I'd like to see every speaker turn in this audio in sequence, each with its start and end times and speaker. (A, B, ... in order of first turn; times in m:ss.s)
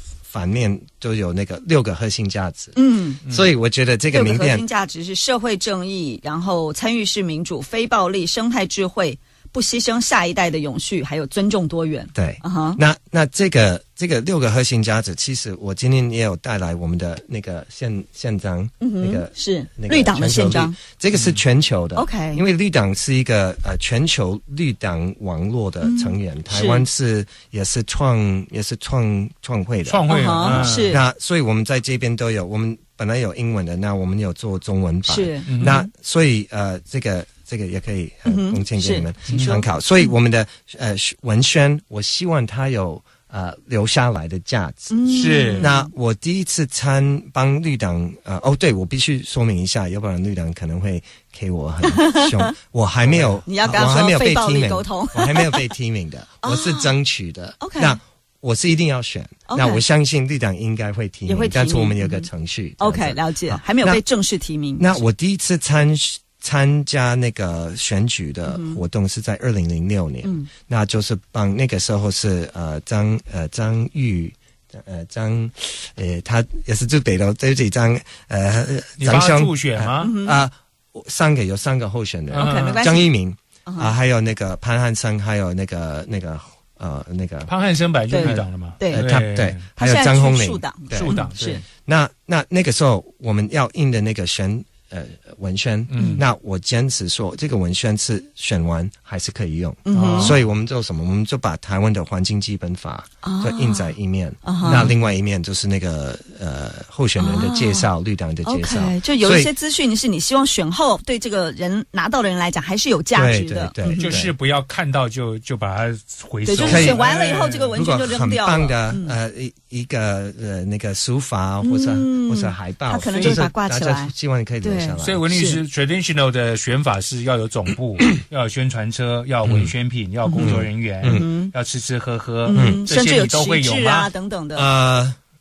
0:00.3-0:04.6 A
0:02.7-0:03.2 B
0:04.1-0:12.8 B
0:12.1-1:04.0 A
0:18.8-0:20.8 B
0:21.1-0:21.4 C
0:21.9-0:22.4 B
0:25.8-0:26.8 B
0:29.8-0:31.0 C
0:30.1-0:31.0 B
0:35.0-0:35.8 B
0:35.5-0:35.8 C
0:38.2-0:39.7 B
0:44.9-0:45.9 B
0:45.1-0:45.7 C
0:51.8-0:52.5 B
0:53.1-0:53.4 C
0:53.4-0:55.7 B
0:56.4-0:56.9 B
0:57.6-0:58.0 B
0:59.5-0:59.8 B
1:01.2-1:04.9 B
1:04.8-1:27.5 A
1:08.5-1:08.8 B
1:10.2-1:10.5 B
1:19.0-1:20.1 C
1:20.0-1:20.4 B
1:22.3-1:22.8 C
1:22.3-1:23.1 B
1:23.6-1:23.9 B
1:27.5-1:29.6 C
1:28.1-1:29.0 B
1:28.2-1:49.5 A
1:29.8-1:31.6 B
1:30.9-1:31.6 C
1:35.9-1:36.2 C
1:36.0-1:36.2 B
1:39.8-1:40.4 B
1:39.9-1:40.4 C
1:43.2-1:44.9 B
1:44.6-1:44.9 C
1:47.2-1:47.9 B
1:48.4-1:54.2 B
1:53.1-1:54.3 A
1:53.9-1:57.8 C
1:56.4-1:59.2 B
1:56.6-2:05.2 A
2:01.6-2:05.6 B
2:03.1-2:03.4 C
2:05.0-2:14.1 C
2:09.4-2:09.7 A
2:10.2-2:11.5 B
2:10.3-2:11.3 A
2:12.4-2:14.7 B
2:12.5-2:12.8 A
2:14.5-2:15.2 A